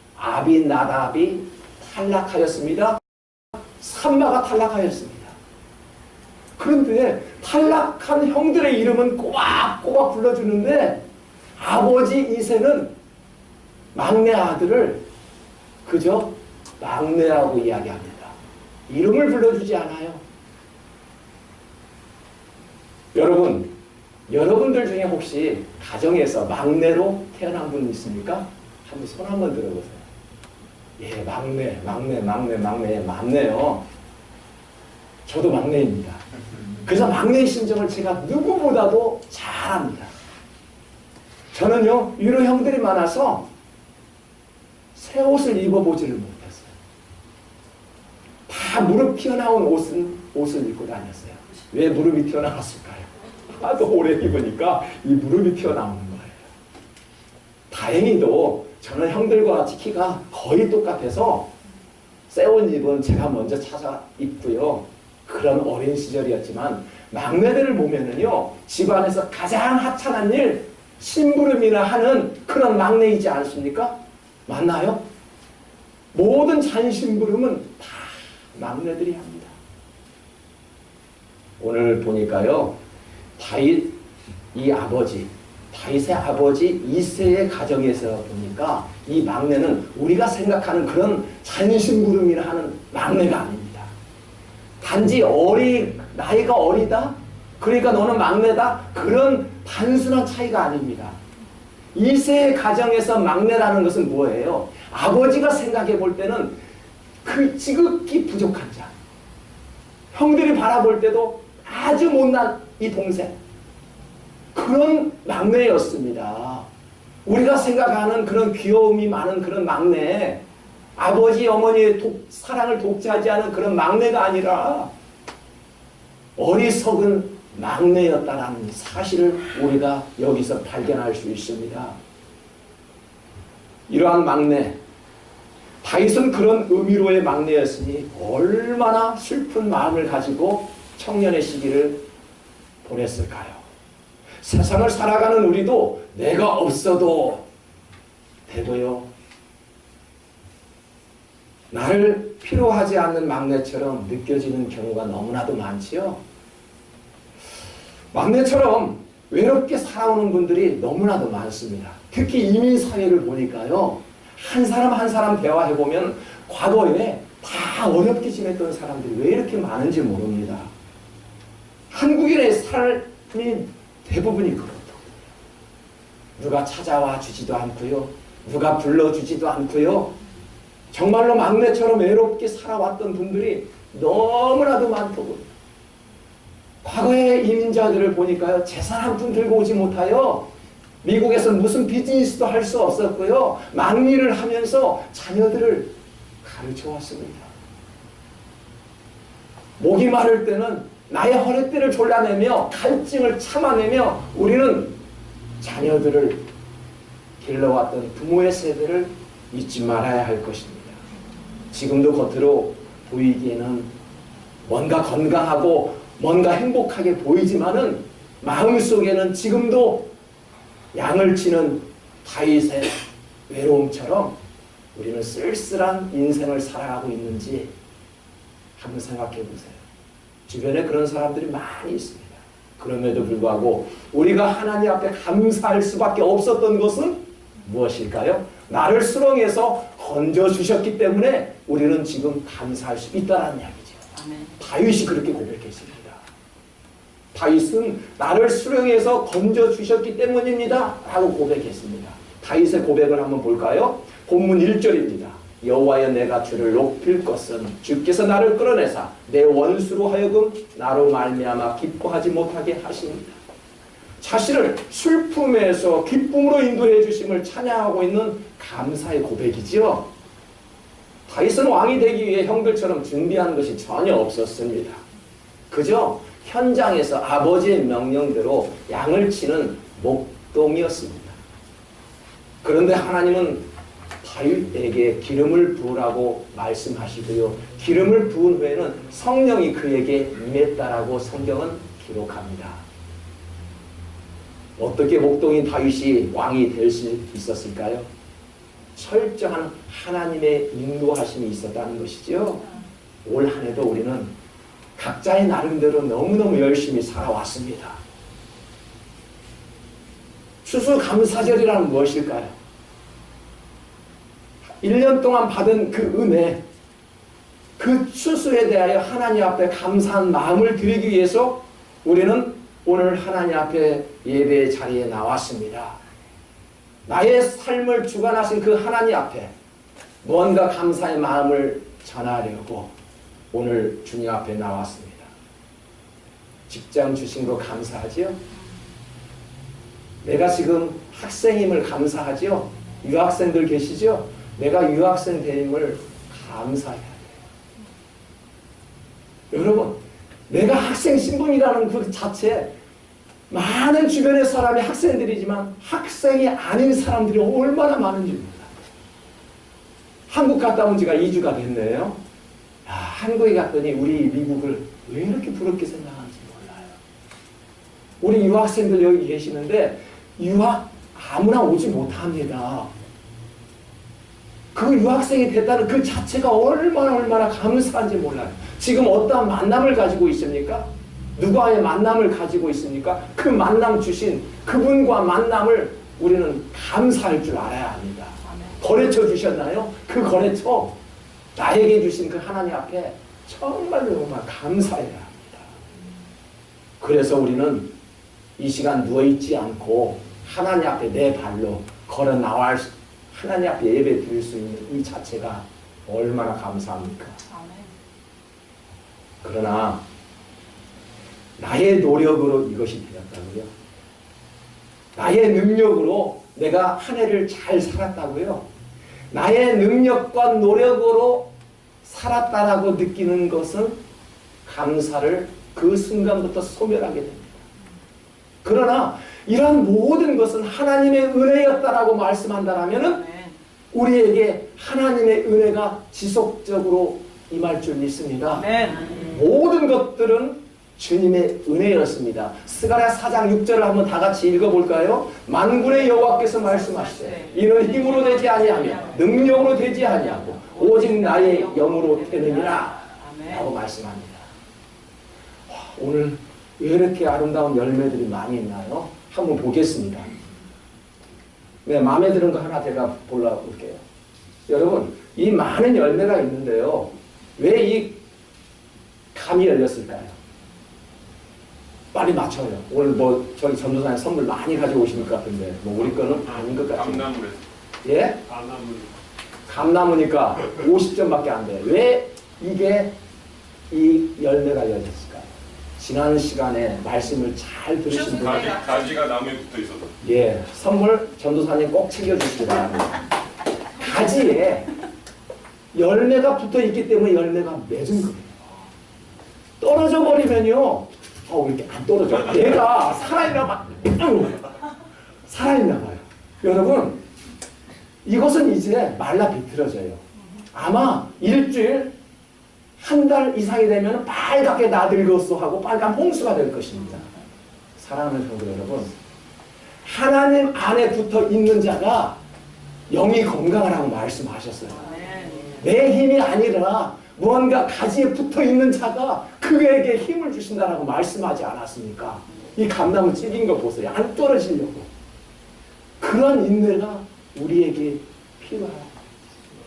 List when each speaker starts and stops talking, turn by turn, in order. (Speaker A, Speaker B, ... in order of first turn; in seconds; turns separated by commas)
Speaker A: 0.2-3.0, Speaker A: 3.5-5.3, Speaker A: 6.6-11.0, Speaker A: 11.6-12.9, Speaker A: 13.9-15.0, Speaker A: 15.8-18.3, Speaker A: 18.9-20.2, Speaker A: 23.1-23.7, Speaker A: 24.3-30.1, Speaker A: 31.0-33.8, Speaker A: 35.2-36.2, Speaker A: 36.8-40.1, Speaker A: 41.5-43.5, Speaker A: 44.9-46.7, Speaker A: 48.5-56.4, Speaker A: 57.7-61.5, Speaker A: 62.3-75.0, Speaker A: 76.1-79.6, Speaker A: 81.6-82.8, Speaker A: 83.4-84.0, Speaker A: 84.5-93.9, Speaker A: 94.8-101.2, Speaker A: 101.9-106.5, Speaker A: 107.2-108.9, Speaker A: 110.1-113.4, Speaker A: 114.5-116.7, Speaker A: 117.2-120.4, Speaker A: 121.0-124.9, Speaker A: 126.4-132.0, Speaker A: 133.9-134.8, Speaker A: 135.8-142.0, Speaker A: 142.8-143.6, Speaker A: 144.4-147.4, Speaker A: 148.5-149.1, Speaker A: 151.7-156.2, Speaker A: 158.1-170.7, Speaker A: 171.9-175.3, Speaker A: 176.4-180.1, Speaker A: 180.9-185.5, Speaker A: 186.8-190.5, Speaker A: 191.0-197.5, Speaker A: 199.8-204.9, Speaker A: 205.6-206.4, Speaker A: 207.4-211.0, Speaker A: 211.7-213.9, Speaker A: 214.7-220.1, Speaker A: 220.9-224.4, Speaker A: 224.9-227.7, Speaker A: 228.8-229.8, Speaker A: 230.5-244.0, Speaker B: 244.1-244.6, Speaker A: 244.6-246.2, Speaker A: 247.3-263.4, Speaker A: 264.2-270.1, Speaker A: 271.3-275.0, Speaker A: 275.7-281.4, Speaker A: 282.6-283.6, Speaker A: 284.2-292.8, Speaker A: 294.8-298.1, Speaker A: 298.9-302.6, Speaker A: 303.2-304.3, Speaker A: 304.9-308.0, Speaker A: 310.6-312.6, Speaker A: 314.8-316.6, Speaker A: 317.8-326.0, Speaker A: 327.1-329.5, Speaker A: 330.2-332.9, Speaker A: 333.5-335.3, Speaker A: 336.7-338.4, Speaker A: 340.2-347.4, Speaker A: 349.5-352.7, Speaker A: 353.5-358.8, Speaker A: 360.3-362.2, Speaker A: 362.9-367.0, Speaker A: 368.2-372.9, Speaker A: 374.7-390.9, Speaker B: 388.4-388.8, Speaker A: 391.6-395.7, Speaker A: 397.0-397.9, Speaker A: 398.6-407.4, Speaker B: 407.5-407.9, Speaker A: 409.4-410.0, Speaker A: 411.6-413.7, Speaker A: 415.1-418.6, Speaker A: 419.3-421.5, Speaker A: 422.0-424.0, Speaker A: 424.6-427.6, Speaker A: 428.6-433.2, Speaker B: 433.0-433.6, Speaker A: 433.9-438.7, Speaker B: 438.5-439.2, Speaker A: 439.2-454.5, Speaker B: 447.1-449.9, Speaker B: 450.6-453.7, Speaker A: 455.7-460.3, Speaker A: 461.8-464.0, Speaker A: 464.7-468.2, Speaker A: 469.3-470.3, Speaker A: 472.1-477.3, Speaker C: 476.9-477.6, Speaker A: 478.0-478.4, Speaker C: 478.5-479.1, Speaker A: 479.7-483.1, Speaker A: 483.9-488.8, Speaker C: 488.4-490.1, Speaker A: 490.2-493.2, Speaker A: 494.0-494.9, Speaker A: 495.9-498.6, Speaker A: 499.8-504.7, Speaker A: 505.5-507.2, Speaker A: 508.2-512.1, Speaker A: 513.0-517.3, Speaker A: 518.0-519.1, Speaker A: 520.0-522.4, Speaker A: 523.1-525.0, Speaker B: 524.9-525.8, Speaker A: 525.8-535.1, Speaker A: 536.2-539.1